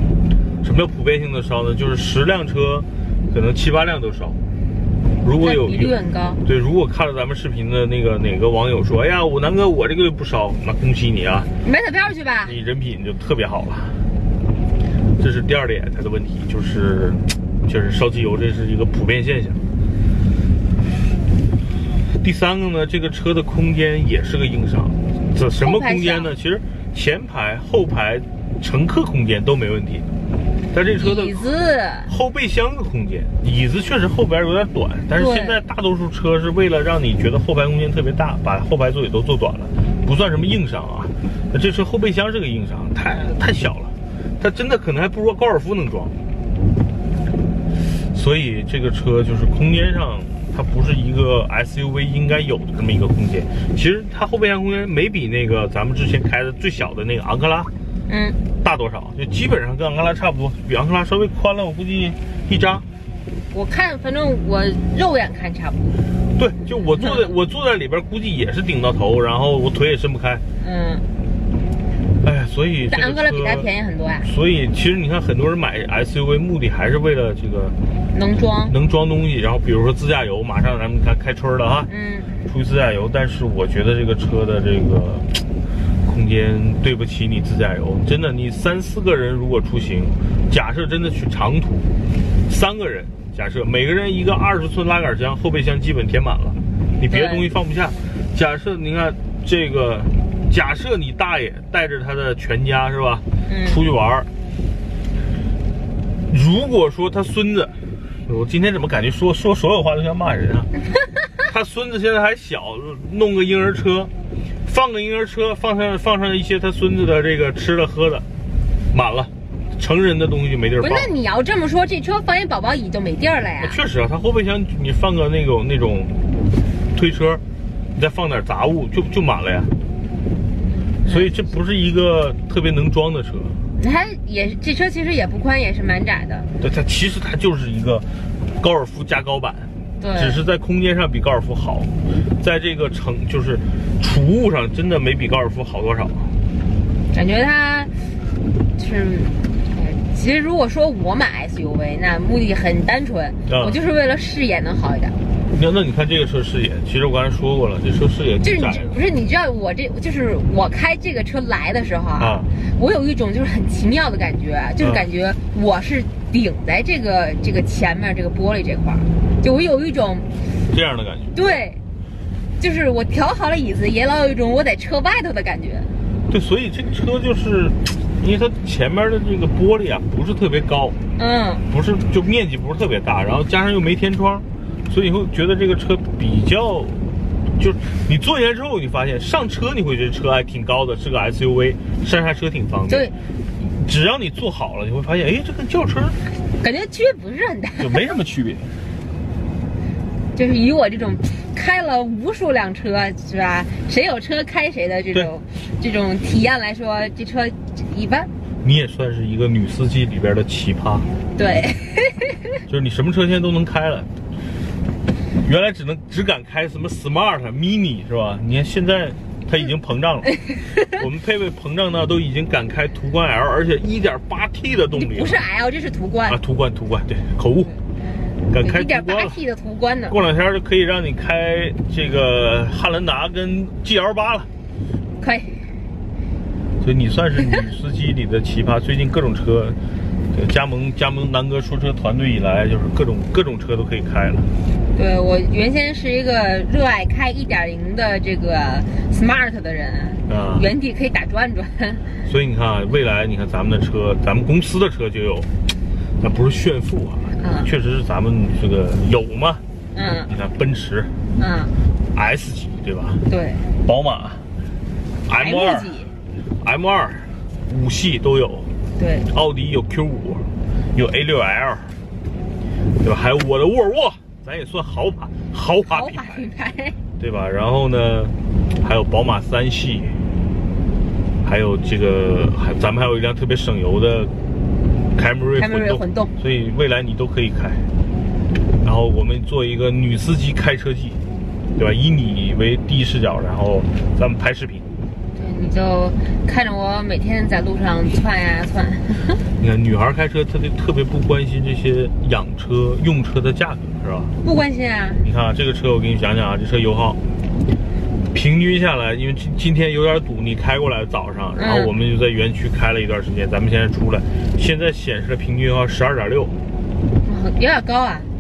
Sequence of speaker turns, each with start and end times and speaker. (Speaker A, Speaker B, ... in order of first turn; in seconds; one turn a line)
Speaker A: 0.6-4.4
Speaker A: 5.2-11.5
Speaker B: 5.4-6.4
Speaker B: 11.6-12.6
Speaker A: 12.4-14.0
Speaker A: 15.2-19.6
Speaker A: 22.2-30.1
Speaker B: 25.6-26.3
Speaker A: 30.7-31.5
Speaker B: 31.0-32.1
Speaker A: 32.1-46.1
Speaker B: 35.1-35.6
Speaker A: 48.1-57.7
Speaker B: 58.1-58.4
Speaker A: 58.6-62.8
Speaker B: 63.5-66.0
Speaker A: 66.4-70.4
Speaker B: 66.9-67.3
Speaker B: 70.6-71.0
Speaker A: 72.2-73.7
Speaker B: 72.9-74.3
Speaker A: 74.2-77.7
Speaker B: 78.1-78.7
Speaker A: 78.7-81.9
Speaker B: 81.9-82.3
Speaker A: 82.5-85.4
Speaker A: 86.0-91.9
Speaker A: 92.5-104.3
Speaker B: 97.1-97.5
Speaker B: 103.5-103.8
Speaker A: 106.3-107.7
Speaker A: 108.3-110.7
Speaker A: 111.4-114.1
Speaker A: 114.7-118.2
Speaker A: 118.9-121.1
Speaker B: 120.8-123.8
Speaker A: 123.6-126.2
Speaker A: 126.9-127.4
Speaker A: 128.0-129.7
Speaker B: 131.0-131.3
Speaker A: 131.1-133.6
Speaker B: 133.8-136.5
Speaker A: 136.6-138.1
Speaker A: 138.6-146.3
Speaker B: 140.0-140.4
Speaker B: 147.1-147.9
Speaker B: 148.8-155.2
Speaker A: 153.5-153.8
Speaker A: 155.5-159.0
Speaker B: 158.4-170.3
Speaker A: 162.2-162.5
Speaker A: 170.7-171.5
Speaker B: 171.3-171.8
Speaker B: 172.6-175.9
Speaker A: 176.3-181.0
Speaker B: 181.2-181.6
Speaker A: 181.7-196.2
Speaker B: 192.9-193.1
Speaker B: 196.6-198.0
Speaker A: 197.8-198.7
Speaker B: 200.3-208.3
Speaker A: 208.6-211.1
Speaker B: 211.3-212.4
Speaker A: 212.7-214.1
Speaker A: 215.4-225.4
Speaker B: 224.9-226.4
Speaker A: 226.3-227.7
Speaker A: 228.5-229.4
Speaker B: 228.6-230.2
Speaker A: 230.1-234.5
Speaker B: 235.2-235.6
Speaker A: 236.8-239.8
Speaker A: 240.3-244.5
Speaker B: 244.9-252.1
Speaker A: 250.3-250.7
Speaker A: 252.2-255.5
Speaker A: 256.2-259.6
Speaker B: 257.4-257.7
Speaker B: 259.9-260.3
Speaker A: 260.3-261.1
Speaker B: 261.4-261.7
Speaker A: 262.1-263.2
Speaker B: 263.3-263.6
Speaker A: 263.8-264.4
Speaker A: 265.2-265.9
Speaker B: 265.4-266.1
Speaker A: 266.6-268.7
Speaker B: 269.0-269.3
Speaker A: 269.3-271.9
Speaker A: 273.0-276.5
Speaker B: 275.8-277.0
Speaker A: 277.2-280.1
Speaker A: 281.4-284.3
Speaker A: 285.1-287.9
Speaker B: 285.6-286.3
Speaker A: 288.8-291.2
Speaker A: 291.8-294.8
Speaker B: 295.4-299.4
Speaker A: 299.6-304.3
Speaker B: 304.4-305.2
Speaker A: 305.2-307.2
Speaker A: 308.3-316.5
Speaker B: 311.6-311.9
Speaker B: 317.2-318.3